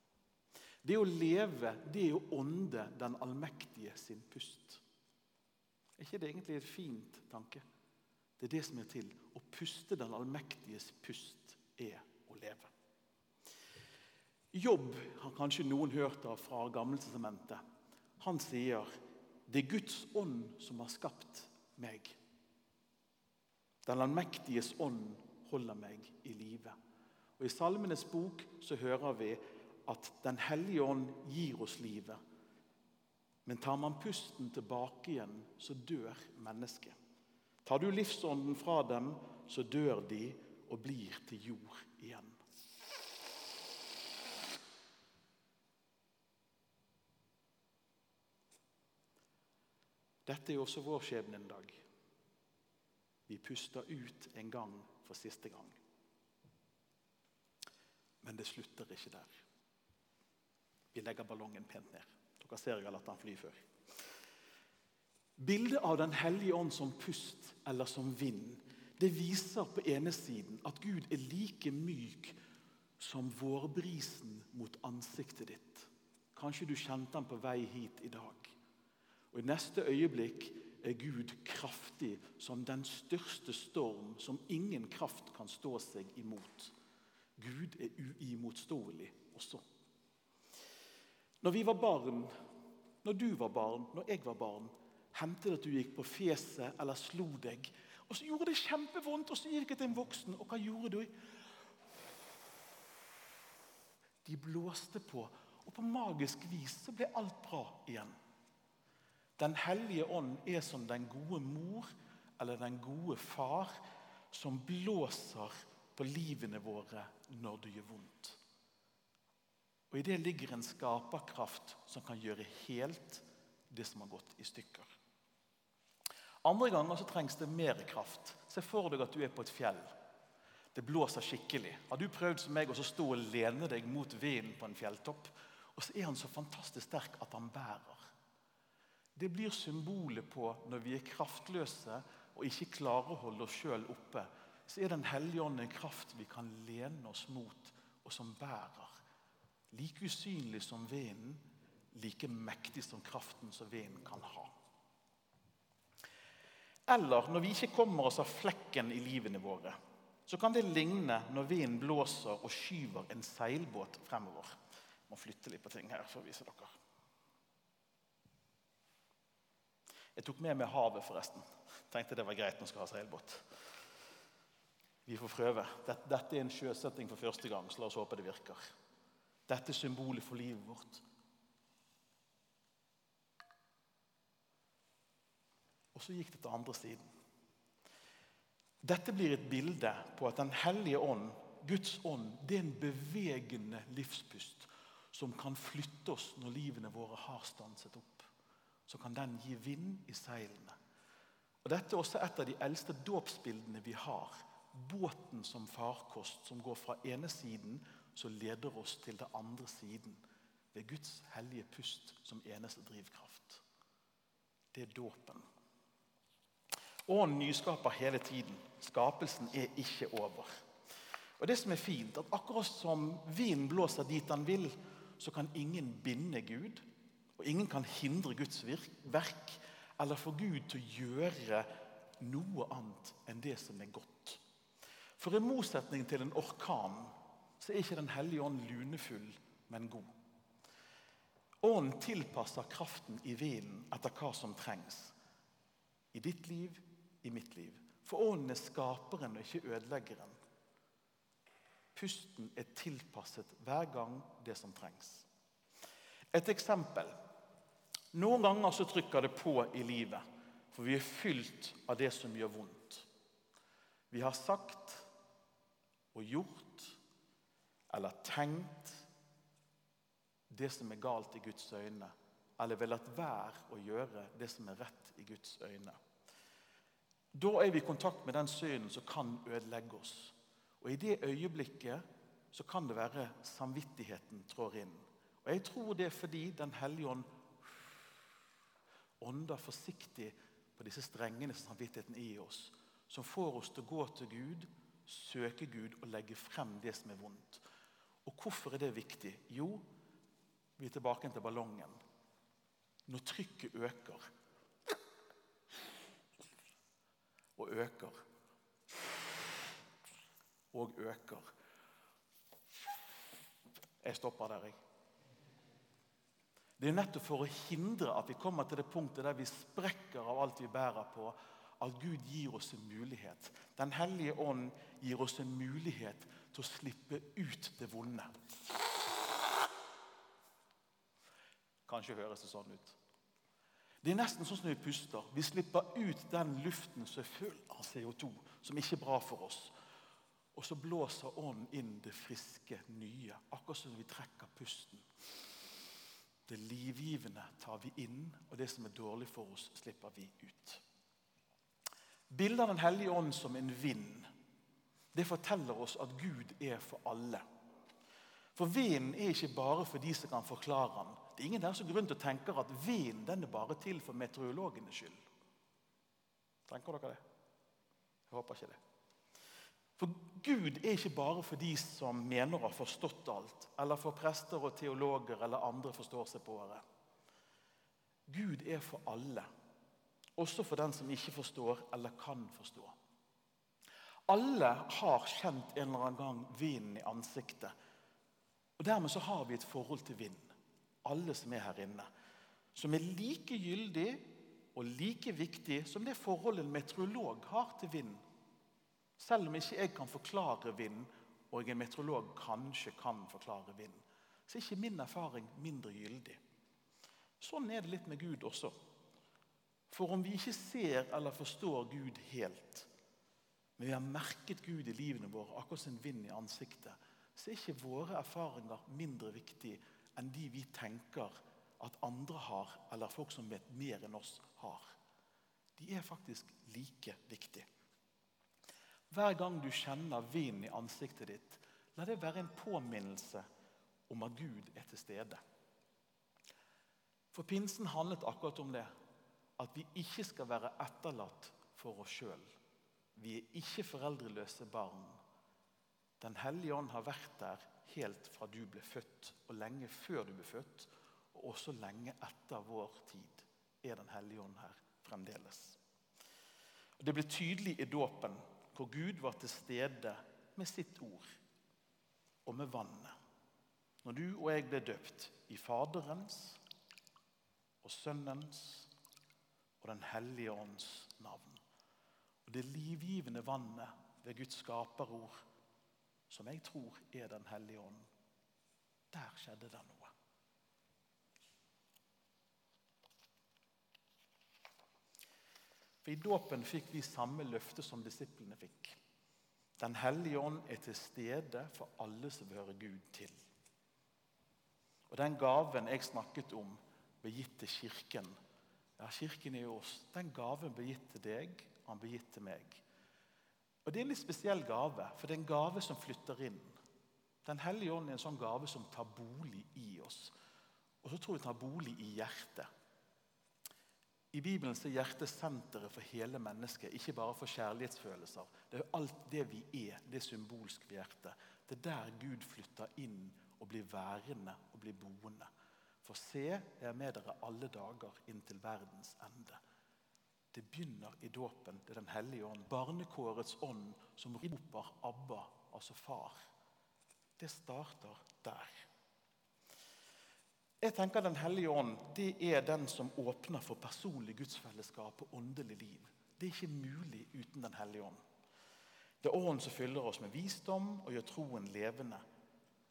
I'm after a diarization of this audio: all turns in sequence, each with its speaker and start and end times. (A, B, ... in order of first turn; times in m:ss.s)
0:00.8-0:04.8 A
0:06.0-0:07.6 A
0:08.4-0:12.7 A
0:14.5-0:17.6 A
0:18.2-0:18.9 A
0:19.5-0:22.2 A
0:23.8-0:26.7 A
0:27.4-0:32.2 A
0:33.4-0:37.0 A
0:37.6-0:42.4 A
0:50.2-0:51.8 A
0:53.3-0:55.8 A
0:58.2-0:59.4 A
1:00.9-1:03.6 A
1:05.4-1:12.4 A
1:13.0-1:18.6 A
1:19.3-1:26.8 A
1:27.4-1:29.6 A
1:31.4-1:32.3 A
1:33.0-1:41.1 A
1:44.2-1:48.2 A
1:49.4-1:53.8 A
1:54.3-1:58.4 A
1:59.9-2:04.9 A
2:06.4-2:09.9 A
2:10.7-2:18.1 A
2:19.2-2:29.0 A
2:29.7-2:34.5 A
2:36.9-2:39.8 A
2:40.3-2:44.6 A
2:45.1-2:46.8 A
2:50.2-2:53.4 A
2:55.0-2:58.7 A
2:59.5-3:01.0 A
3:05.9-3:07.1 A
3:08.8-3:18.3 A
3:18.9-3:20.8 A
3:21.6-3:33.6 A
3:34.7-3:35.5 A
3:37.1-3:40.6 A
3:41.4-3:46.8 A
3:47.4-3:54.4 A
3:55.2-4:00.1 A
4:01.6-4:05.2 A
4:06.1-4:10.4 A
4:11.9-4:15.3 A
4:16.3-4:17.2 A
4:18.1-4:23.1 A
4:24.1-4:25.1 A
4:26.1-4:27.0 A
4:27.9-4:29.1 A
4:30.5-4:36.0 A
4:37.3-4:48.0 A
4:49.2-4:57.6 A
4:58.2-4:59.8 A
5:00.8-5:02.0 A
5:03.1-5:04.2 A
5:07.6-5:08.2 A
5:10.7-5:11.5 A
5:14.0-5:14.8 A
5:16.8-5:28.4 A
5:31.9-5:33.0 A
5:34.0-5:39.7 A
5:40.5-5:45.0 A
5:46.5-5:50.8 A
5:52.3-5:54.3 A
5:55.1-5:57.4 A
5:58.5-6:05.2 A
6:06.7-6:07.2 A
6:08.3-6:08.8 A
6:10.0-6:16.8 A
6:18.3-6:19.5 A
6:20.4-6:23.0 A
6:24.3-6:27.7 A
6:28.8-6:32.1 A
6:32.7-6:38.2 A
6:39.2-6:46.4 A
6:47.4-6:48.8 A
6:49.9-6:52.9 A
6:53.8-7:05.0 A
7:05.8-7:07.7 A
7:09.1-7:13.4 A
7:14.1-7:15.4 A
7:17.3-7:18.9 A
7:19.6-7:22.5 A
7:23.2-7:25.2 A
7:26.2-7:35.8 A
7:37.0-7:41.4 A
7:42.4-7:43.2 A
7:44.0-7:46.6 A
7:47.8-7:48.9 A
7:49.8-7:51.6 A
7:52.4-7:55.4 A
7:56.3-7:58.1 A
7:59.1-8:00.1 A
8:06.0-8:09.0 A
8:09.8-8:13.3 A
8:15.1-8:18.4 A
8:19.0-8:22.8 A
8:23.8-8:26.8 A
8:27.4-8:30.3 A
8:31.0-8:32.7 A
8:34.3-8:45.5 A
8:46.0-8:49.6 A
8:50.5-8:56.4 A
8:57.4-8:58.9 A
9:00.8-9:08.2 A
9:09.2-9:12.2 A